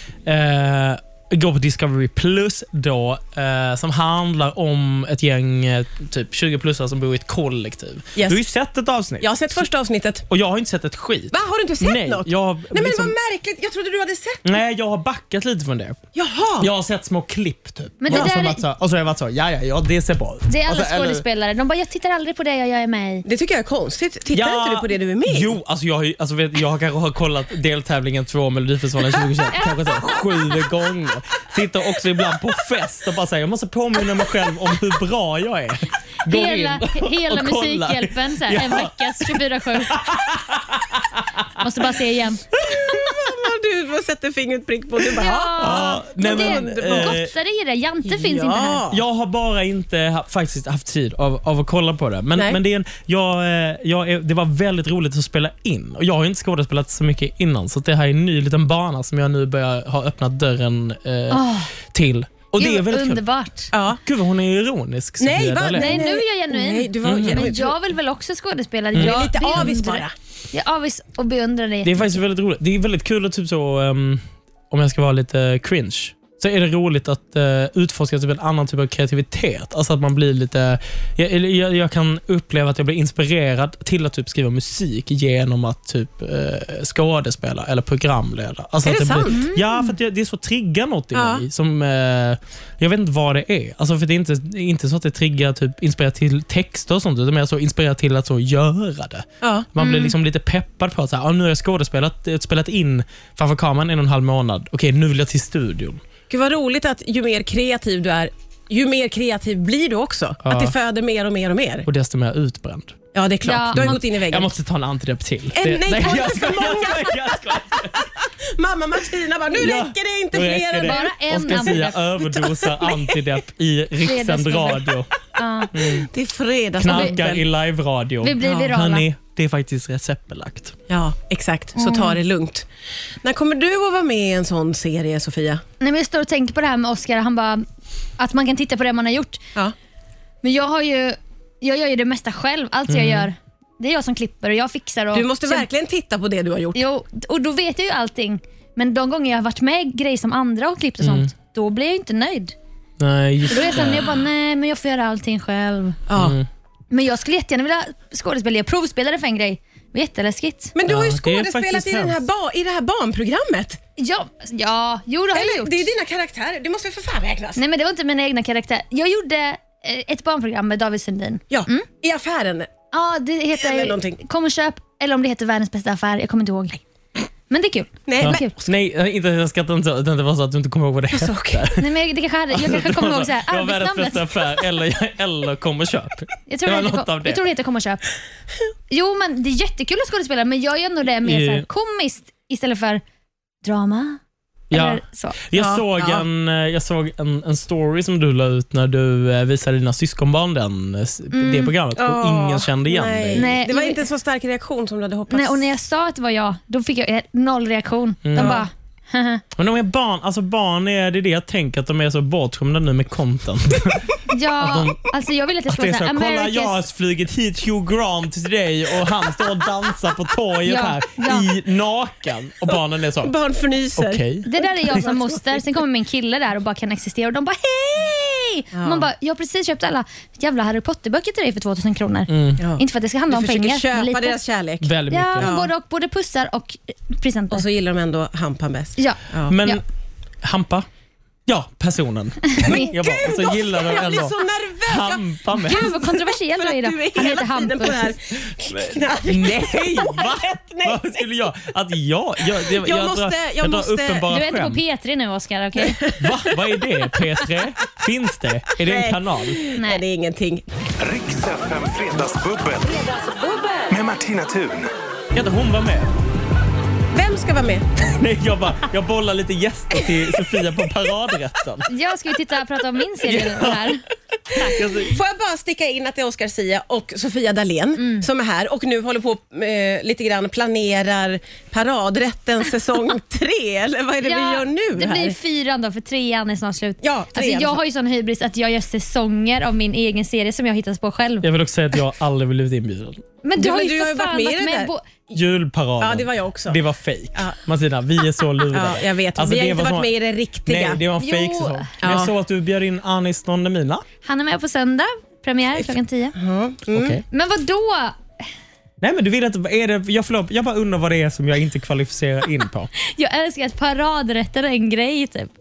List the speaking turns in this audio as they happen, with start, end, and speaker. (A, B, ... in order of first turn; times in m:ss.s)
0:00.3-0:09.7 A
0:08.2-0:08.4 B
0:09.2-0:10.3 B
0:10.3-0:13.2 A
0:11.3-0:14.6 B
0:14.4-0:16.0 A
0:16.2-0:16.7 B
0:16.6-0:21.2 A
0:18.0-0:18.6 C
0:20.5-0:23.3 C
0:23.3-0:25.6 B
0:24.3-0:41.6 A
0:29.5-0:30.2 C
0:36.3-0:40.0 C
0:41.6-0:42.4 C
0:42.5-0:43.2 A
0:42.6-0:47.2 B
0:45.1-0:48.8 C
0:45.6-0:47.3 A
0:48.0-0:49.0 B
0:48.9-1:03.2 A
1:01.3-1:01.7 C
1:02.6-1:03.7 C
1:03.7-1:04.0 B
1:03.9-1:06.0 A
1:05.2-1:07.8 B
1:05.8-1:12.2 C
1:07.0-1:07.5 A
1:08.9-1:09.7 A
1:08.9-1:10.1 B
1:11.8-1:46.0 A
1:28.8-1:29.4 B
1:29.2-1:30.0 C
1:31.1-1:31.4 B
1:39.4-1:39.7 B
1:39.8-1:40.1 C
1:46.3-1:51.9 B
1:50.4-1:50.8 A
1:51.8-1:53.0 A
1:53.1-1:54.5 B
1:53.4-1:54.0 C
1:53.7-1:58.1 A
1:55.5-2:03.2 B
1:59.5-2:05.1 A
2:00.8-2:02.0 C
2:04.0-2:05.7 C
2:05.7-2:06.1 A
2:05.8-2:07.4 B
2:06.8-2:10.8 A
2:06.9-2:07.2 C
2:08.2-2:09.0 C
2:10.9-2:12.7 B
2:11.8-2:12.2 C
2:13.2-2:15.6 B
2:15.8-2:17.7 C
2:18.2-2:19.4 C
2:20.4-2:25.7 C
2:22.9-2:23.3 A
2:25.1-2:26.8 B
2:26.8-2:32.6 C
2:31.0-2:31.3 A
2:33.0-2:34.1 A
2:33.5-2:36.0 C
2:36.1-2:36.4 B
2:36.2-2:36.5 A
2:36.9-2:40.7 C
2:40.8-2:43.8 B
2:40.9-2:42.2 A
2:44.0-2:45.9 C
2:45.3-2:47.6 B
2:47.6-2:51.9 C
2:51.5-2:52.7 B
2:52.9-2:56.8 C
2:53.6-2:54.2 B
2:57.5-2:58.6 C
2:58.1-2:58.5 B
2:58.2-3:01.9 A
3:01.1-3:01.7 B
3:01.8-3:04.4 C
3:02.5-3:07.4 A
3:06.5-3:08.0 C
3:08.9-3:13.0 C
3:11.2-3:11.7 A
3:13.6-3:14.2 C
3:14.7-3:15.4 C
3:14.7-3:23.5 A
3:15.6-3:16.2 B
3:21.3-3:21.7 C
3:22.0-3:25.7 B
3:23.3-3:24.0 C
3:25.3-3:29.4 C
3:28.2-3:28.6 A
3:28.4-3:28.7 B
3:29.6-3:35.0 A
3:34.3-3:36.8 C
3:35.7-3:43.3 A
3:40.6-3:41.5 C
3:42.7-3:45.6 B
3:44.0-3:44.5 A
3:44.4-3:54.4 C
3:48.7-3:49.1 B
3:52.3-3:52.6 A
3:52.6-3:55.7 B
3:54.8-3:55.5 A
3:55.1-3:57.6 C
3:57.5-3:59.6 B
3:59.0-3:59.8 C
3:59.5-3:59.8 A
4:00.4-4:00.9 A
4:01.5-4:05.9 A
4:02.6-4:02.9 C
4:02.6-4:11.2 B
4:05.6-4:08.1 C
4:08.8-4:14.8 A
4:12.6-4:14.3 B
4:14.3-4:16.0 C
4:15.8-4:16.8 B
4:16.2-4:19.6 A
4:18.8-4:20.6 B
4:19.8-4:20.0 C
4:21.0-4:23.2 D
4:23.9-4:24.9 D
4:25.3-4:26.1 A
4:27.1-4:27.9 B
4:28.0-4:31.9 A
4:31.9-4:34.0 C
4:33.2-4:34.0 A
4:34.5-4:34.8 C
4:34.6-4:35.2 A
4:34.6-4:45.4 B
4:38.0-4:38.3 C
4:44.2-4:51.5 C
4:47.0-4:47.8 B
4:51.4-4:53.2 A
4:53.4-4:55.0 C
4:53.6-4:54.9 B
4:55.3-5:00.1 A
4:56.0-4:56.8 B
4:58.7-5:01.0 B
5:00.6-5:04.0 A
5:01.2-5:01.9 C
5:02.0-5:02.3 B
5:04.2-5:06.4 C
5:06.4-5:07.2 B
5:06.9-5:07.2 A
5:07.3-5:08.2 C
5:09.0-5:12.9 A
5:13.0-5:15.5 C